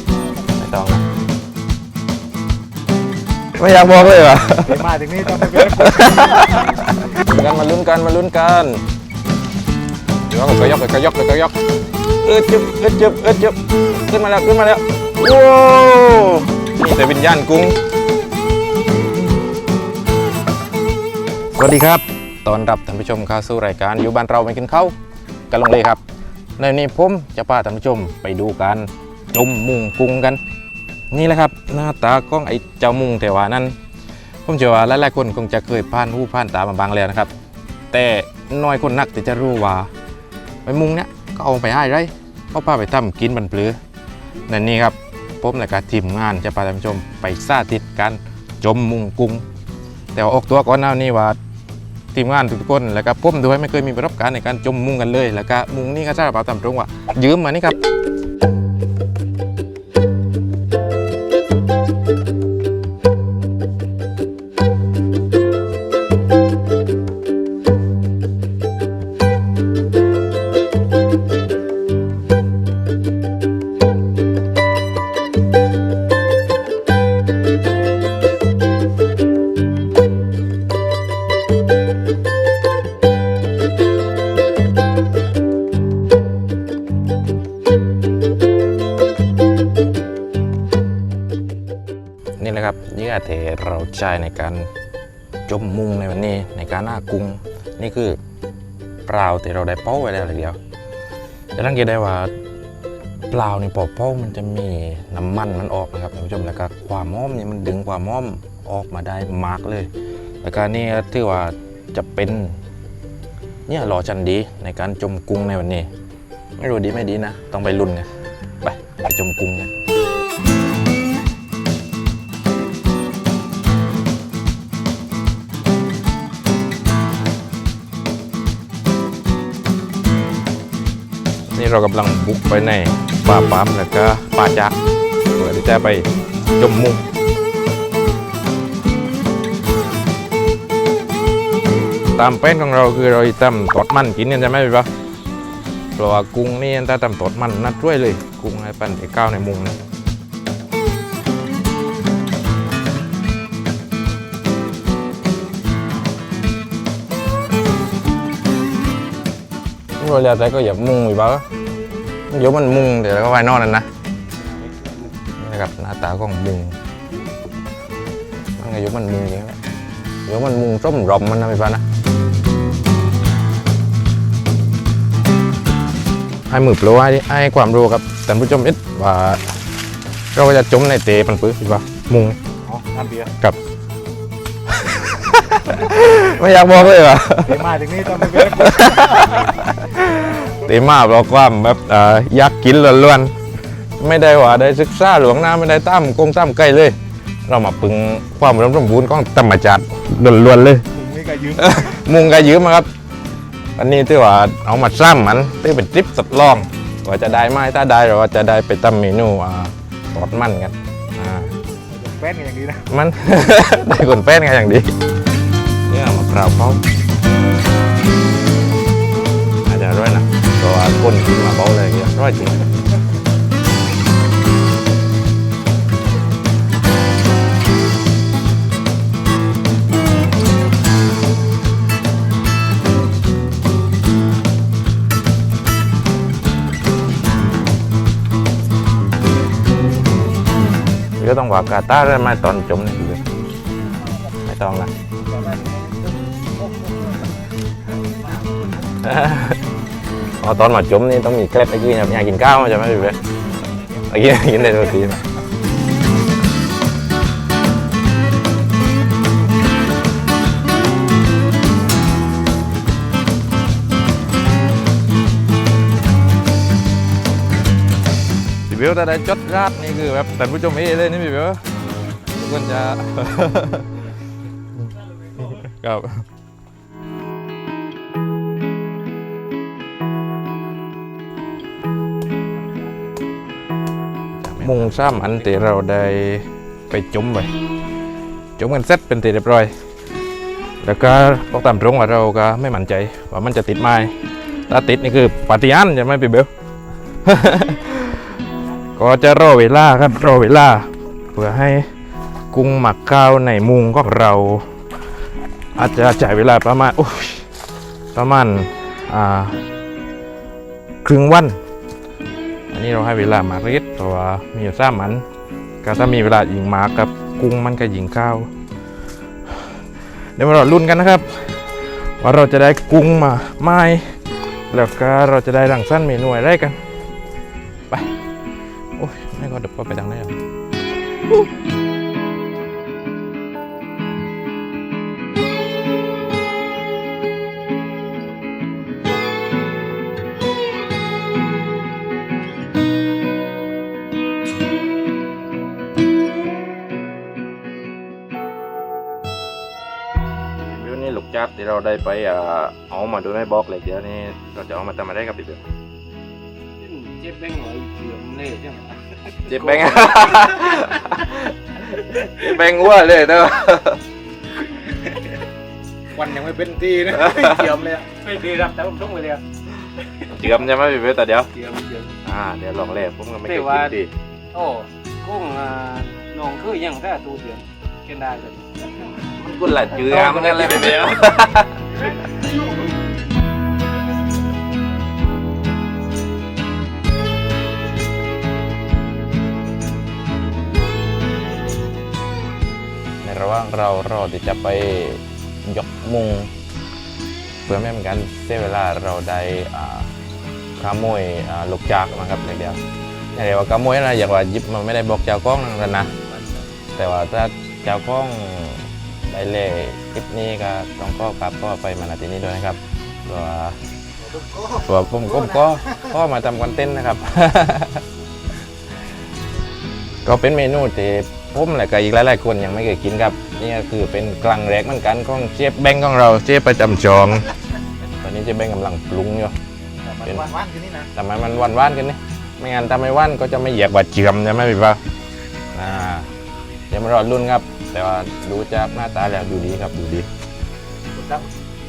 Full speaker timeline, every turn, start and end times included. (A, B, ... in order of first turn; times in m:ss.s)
0:00.5-0:01.0 A
0:03.6-0:04.8 A
0:04.6-0:06.9 B
0:05.4-0:08.8 A
0:10.3-0:11.6 A
0:12.2-0:17.8 A
0:21.6-0:25.0 A
0:25.5-0:26.0 A
0:26.6-0:30.4 A
0:31.1-0:33.8 A
0:34.5-0:37.3 A
0:37.9-0:39.9 A
0:40.6-0:43.8 A
0:44.5-0:49.4 A
0:50.1-0:51.4 A
0:52.1-0:57.8 A
1:32.4-1:34.7 A
1:35.5-1:38.2 A
1:39.1-1:40.6 A
1:41.6-1:42.3 A
1:43.3-1:49.9 A
1:50.4-1:52.6 A
1:53.7-1:55.9 A
1:56.6-1:58.1 A
1:58.6-1:59.7 A
2:11.5-2:14.8 A
2:15.3-2:17.0 A
2:22.2-2:24.9 A
2:26.0-2:29.8 A
2:40.0-2:41.5 A
2:42.3-2:43.9 A
2:45.4-2:46.8 A
2:48.6-2:49.6 A
2:50.3-2:51.8 A
2:56.5-2:59.5 A
3:00.3-3:02.4 A
3:02.7-3:03.3 B
3:04.7-3:13.3 A
3:07.4-3:09.4 B
3:14.0-3:20.9 A
3:20.9-3:21.8 B
3:21.6-3:22.9 A
3:23.8-3:31.5 A
3:31.9-3:32.9 B
3:32.9-3:34.9 A
3:35.9-3:36.8 A
3:39.6-3:42.7 A
4:01.2-4:03.2 A
4:04.4-4:04.9 A
4:05.3-4:07.3 B
4:09.0-4:09.6 A
4:10.4-4:13.2 A
4:13.9-4:15.3 A
4:28.7-4:31.6 A
4:32.3-4:33.9 A
4:34.8-4:36.3 A
4:44.4-4:47.5 A
4:48.6-4:49.7 A
4:50.8-4:54.2 A
4:54.7-4:56.5 A
4:57.2-4:58.2 A
4:59.0-5:01.9 A
5:02.5-5:04.7 A
5:05.8-5:07.5 A
5:08.1-5:09.6 A
5:11.0-5:11.6 A
5:12.7-5:15.2 A
5:15.8-5:18.5 A
5:20.4-5:21.6 A
5:22.2-5:24.1 A
5:24.7-5:26.8 A
5:29.0-5:30.4 A
5:50.6-5:55.6 A
5:56.8-6:00.0 C
5:59.4-6:04.0 A
6:06.2-6:08.1 B
6:07.1-6:07.8 A
6:08.0-6:09.4 C
6:10.2-6:11.5 A
6:11.5-6:12.1 C
6:12.2-6:14.1 A
6:13.5-6:14.0 C
6:14.5-6:18.9 C
6:19.2-6:22.2 A
6:19.9-6:21.2 C
6:33.2-6:36.5 A
6:37.7-6:40.1 A
6:40.8-6:42.8 A
6:43.3-6:46.1 A
6:47.0-6:53.8 A
6:54.3-6:55.8 B
6:54.7-6:58.0 A
7:00.2-7:07.5 A
7:08.1-7:09.6 A
7:10.0-7:11.1 B
7:11.2-7:15.0 A
7:15.7-7:16.3 A
7:16.9-7:20.3 A
7:21.1-7:21.5 B